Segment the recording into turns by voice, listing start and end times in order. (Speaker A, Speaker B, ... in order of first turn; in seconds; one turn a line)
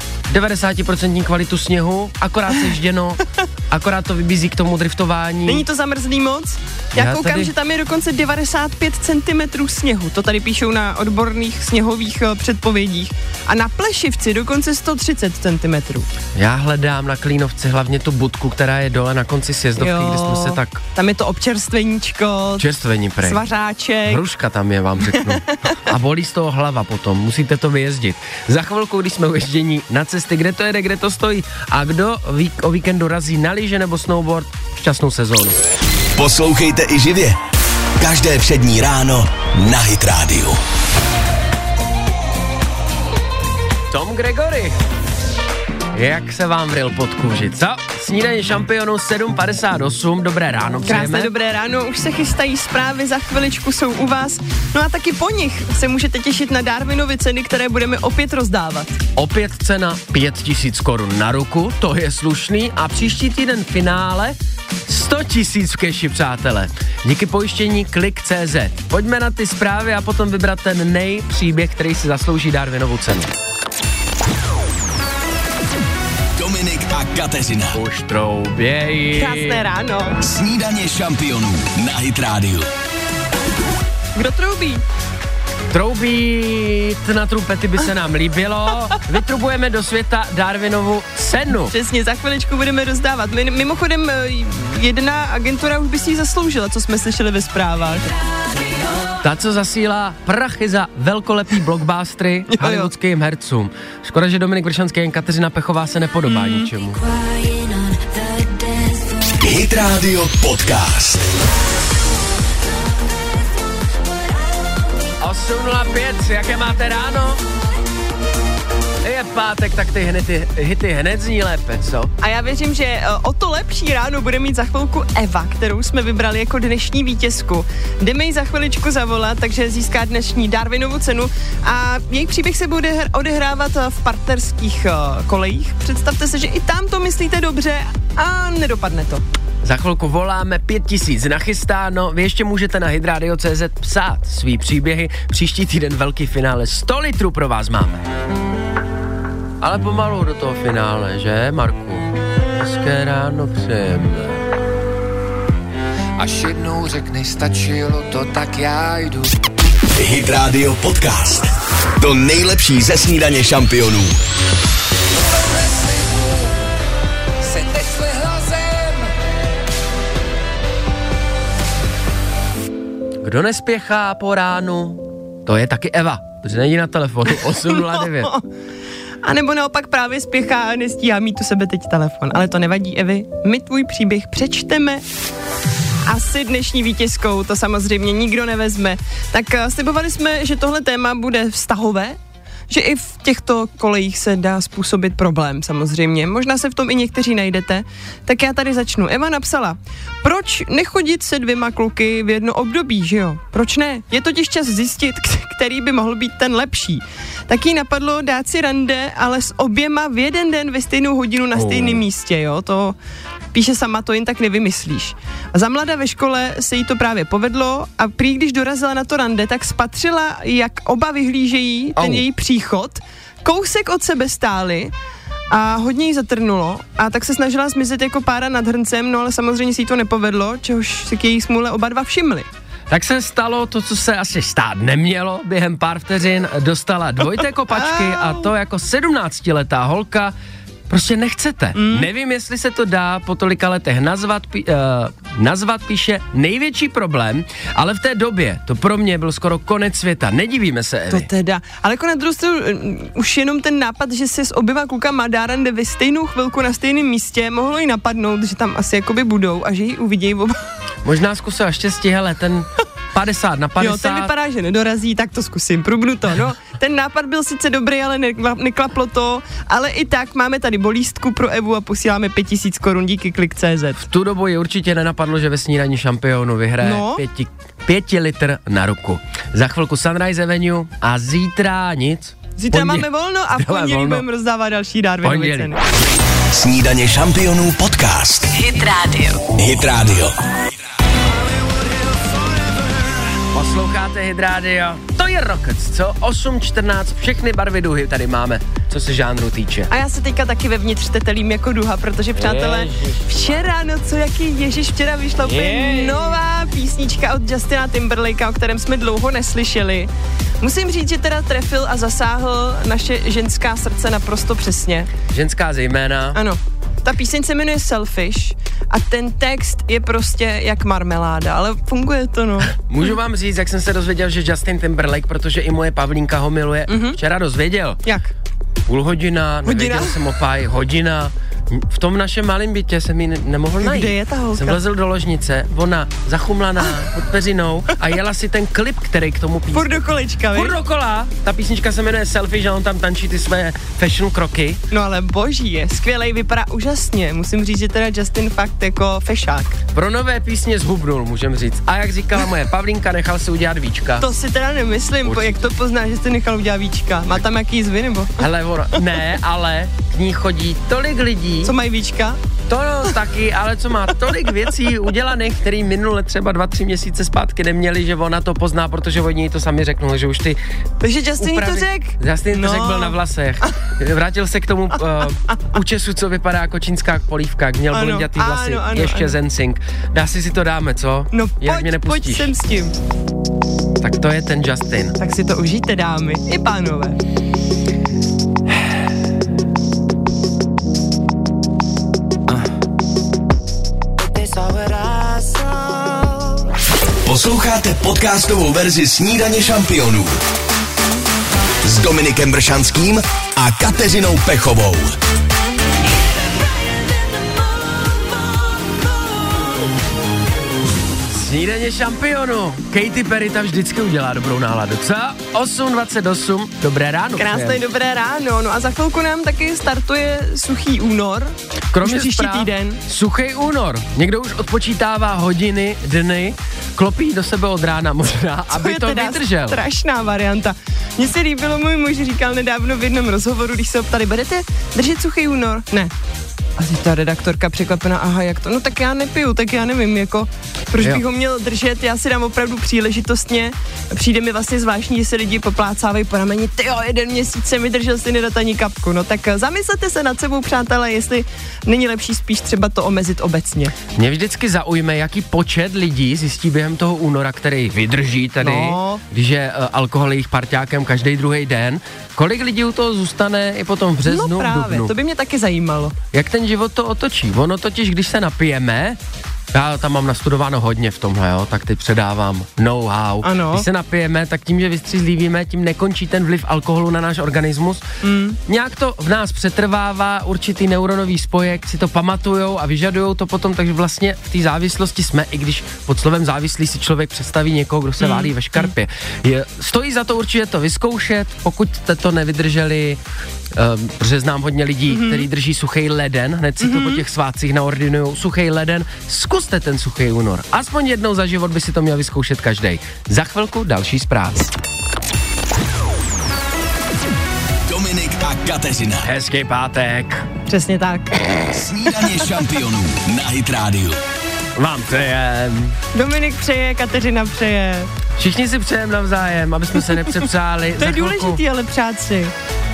Speaker A: 0.3-5.6
Speaker B: 5.5-16.1
Speaker A: 7.0-7.5
Speaker A: 16.4-20.8
Speaker B: 19.8-22.6
Speaker A: 22.6-23.4
Speaker B: 23.2-24.2
Speaker A: 24.1-35.6
Speaker C: 36.1-37.4
Speaker C: 38.0-40.6
Speaker A: 43.9-44.8
Speaker A: 45.9-51.3
Speaker B: 50.9-59.0
Speaker A: 59.1-64.3
Speaker A: 64.9-73.3
Speaker C: 76.3-77.8
Speaker A: 77.7-79.6
Speaker B: 79.1-80.2
Speaker C: 80.2-82.7
Speaker B: 84.2-84.8
Speaker A: 85.7-91.7
Speaker B: 91.5-98.1
Speaker D: 98.6-99.0
Speaker A: 99.2-107.0
Speaker B: 102.5-102.9
Speaker B: 106.3-106.7
Speaker D: 106.9-109.3
Speaker C: 109.4-111.2
Speaker D: 113.3-114.8
Speaker A: 115.2-117.4
Speaker A: 119.0-122.1
Speaker B: 122.2-139.2
Speaker A: 139.6-148.0
Speaker A: 149.6-152.1
Speaker A: 152.6-154.4
Speaker E: 156.2-159.2
Speaker C: 159.9-164.2
Speaker A: 173.2-178.3
Speaker B: 177.7-178.4
Speaker B: 179.2-185.0
Speaker B: 186.1-192.2
Speaker B: 192.7-212.9
Speaker A: 211.6-211.8
Speaker B: 213.5-224.9
Speaker B: 225.5-232.5
Speaker A: 232.9-240.3
Speaker B: 237.7-238.5
Speaker A: 240.9-251.3
Speaker B: 241.8-242.1
Speaker B: 251.1-260.6
Speaker A: 261.0-264.3
Speaker B: 263.8-274.0
Speaker A: 274.0-284.2
Speaker B: 276.8-277.2
Speaker B: 282.6-285.8
Speaker A: 285.2-285.7
Speaker C: 286.5-288.5
Speaker D: 288.5-289.4
Speaker C: 289.5-290.3
Speaker A: 293.5-299.9
Speaker B: 299.9-310.1
Speaker A: 302.3-303.6
Speaker A: 305.4-306.4
Speaker B: 310.6-315.1
Speaker A: 315.3-316.4
Speaker B: 316.3-323.1
Speaker A: 322.8-328.0
Speaker B: 326.9-327.2
Speaker A: 328.9-340.0
Speaker B: 329.7-330.1
Speaker B: 333.8-334.8
Speaker B: 339.7-340.8
Speaker A: 340.5-344.8
Speaker B: 344.9-349.8
Speaker A: 349.9-354.3
Speaker B: 354.2-358.3
Speaker A: 355.2-355.5
Speaker A: 358.4-361.7
Speaker B: 361.6-362.4
Speaker A: 362.7-370.6
Speaker B: 371.0-373.1
Speaker A: 371.4-382.5
Speaker B: 377.9-379.3
Speaker B: 381.3-383.0
Speaker A: 384.0-385.1
Speaker B: 385.2-387.2
Speaker E: 394.2-396.4
Speaker C: 397.2-400.3
Speaker C: 401.8-405.1
Speaker D: 408.4-409.0
Speaker A: 411.3-417.8
Speaker B: 417.4-423.0
Speaker A: 421.9-429.8
Speaker B: 428.7-436.1
Speaker B: 436.8-453.9
Speaker A: 454.1-465.1
Speaker B: 458.6-459.2
Speaker B: 464.2-466.1
Speaker A: 466.3-469.2
Speaker A: 469.7-478.0
Speaker B: 473.4-473.8
Speaker B: 478.2-478.6
Speaker A: 478.7-493.2
Speaker B: 488.2-488.9
Speaker A: 493.7-504.7
Speaker B: 495.1-495.4
Speaker B: 496.8-497.2
Speaker C: 507.9-509.3
Speaker A: 509.2-510.4
Speaker B: 510.7-511.6
Speaker C: 511.7-514.2
Speaker A: 514.8-516.0
Speaker B: 516.1-518.1
Speaker A: 518.4-521.6
Speaker B: 521.0-522.5